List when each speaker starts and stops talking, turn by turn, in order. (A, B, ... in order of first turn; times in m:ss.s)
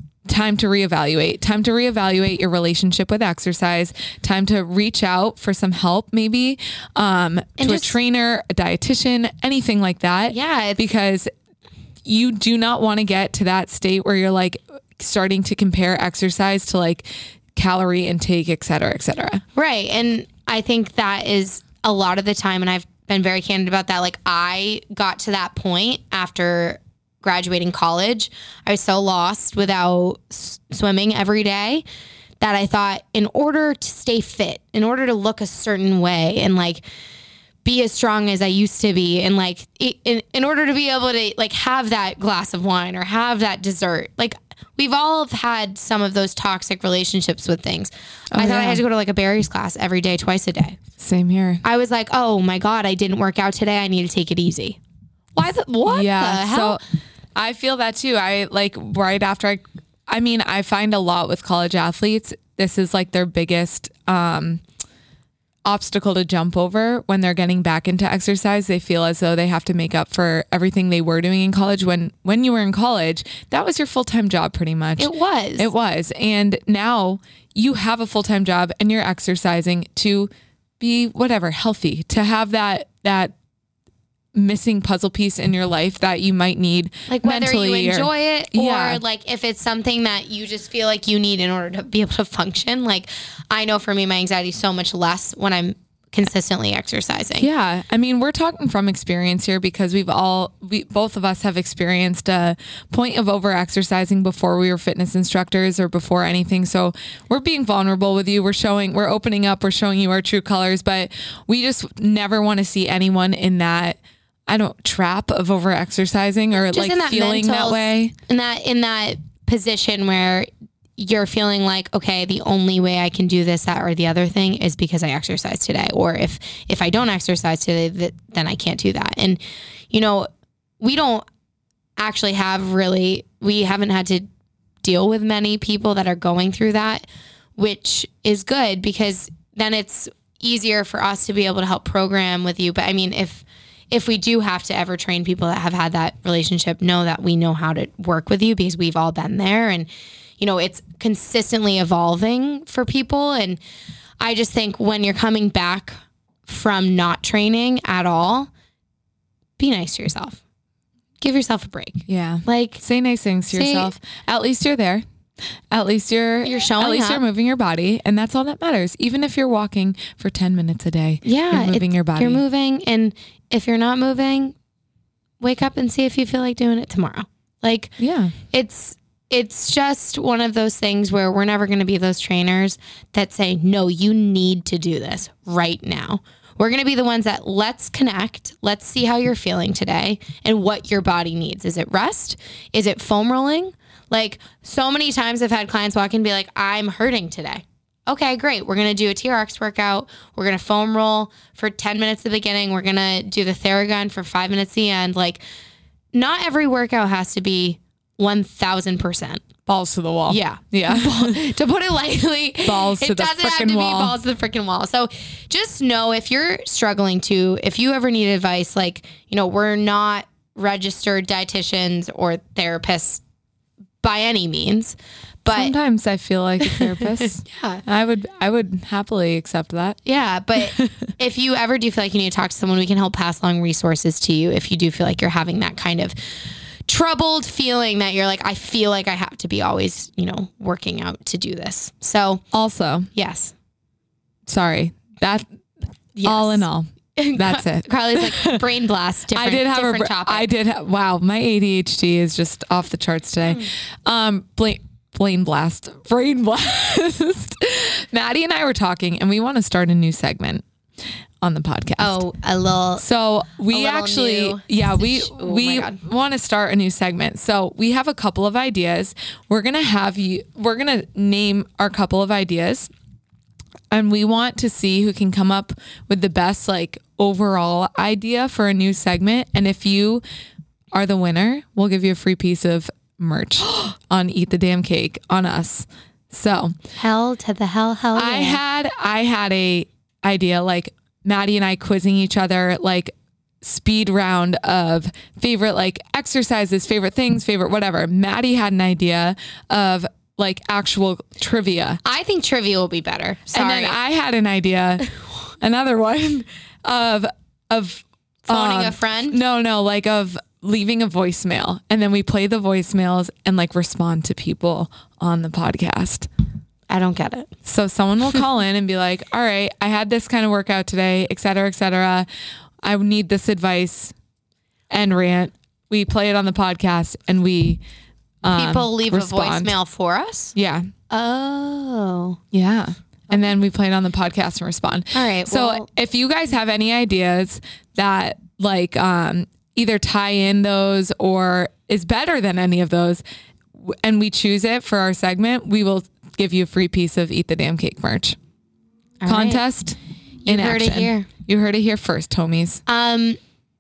0:00.3-0:11.3 A
0:07.6-0:08.0 B
0:10.3-0:10.9 B
0:12.0-0:19.4 A
0:19.6-0:31.8 B
0:32.4-0:36.8 B
0:37.6-0:50.8 B
0:48.3-0:48.8 A
0:51.0-0:51.6 A
0:51.6-0:54.8 B
0:55.4-0:56.8 B
0:55.9-0:56.8 A
0:57.4-1:04.6 A
1:05.6-1:23.3 A
1:15.0-1:15.7 B
1:24.3-1:29.0 A
1:27.1-1:37.5 B
1:37.4-1:58.1 A
1:56.7-2:10.3 B
2:10.8-2:11.3 B
2:12.0-2:14.3 B
2:14.8-2:17.1 B
2:17.6-2:33.6 B
2:34.2-2:38.5 B
2:39.6-2:40.4 B
2:41.2-2:42.8 B
2:42.1-2:45.0 A
2:43.5-2:43.9 B
2:45.7-2:52.4 A
2:46.4-2:47.2 B
2:51.2-2:54.6 B
2:55.4-2:57.9 B
2:58.0-2:58.3 A
2:58.5-3:25.4 B
3:26.1-3:29.4 B
3:29.7-3:31.4 A
3:30.3-3:43.2 B
3:32.6-3:34.2 A
3:44.0-3:45.8 B
3:45.5-3:50.0 A
3:46.6-3:47.8 B
3:50.0-3:56.2 B
3:56.9-4:02.4 B
4:02.5-4:03.1 A
4:03.2-4:03.5 B
4:04.5-4:05.5 A
4:06.2-4:10.5 B
4:06.2-4:08.6 A
4:09.3-4:20.6 A
4:21.4-4:22.2 A
4:22.0-4:23.0 B
4:23.0-4:32.9 A
4:23.7-4:26.0 B
4:33.9-4:40.2 A
4:40.9-4:46.8 A
4:47.0-4:48.6 B
4:48.2-5:02.0 A
5:02.0-5:04.0 B
5:03.5-5:16.3 A
5:08.5-5:09.4 B
5:16.9-5:17.5 B
5:17.6-5:22.3 A
5:22.8-5:24.1 A
5:24.9-5:27.8 A
5:28.4-5:29.7 A
5:28.5-5:30.6 B
5:30.6-5:30.9 A
5:31.1-5:32.4 B
5:32.5-5:43.2 A
5:35.1-5:35.9 B
5:43.8-5:48.4 A
5:49.2-5:49.6 B
5:49.3-5:52.8 A
5:50.4-5:51.3 B
5:52.9-5:53.4 B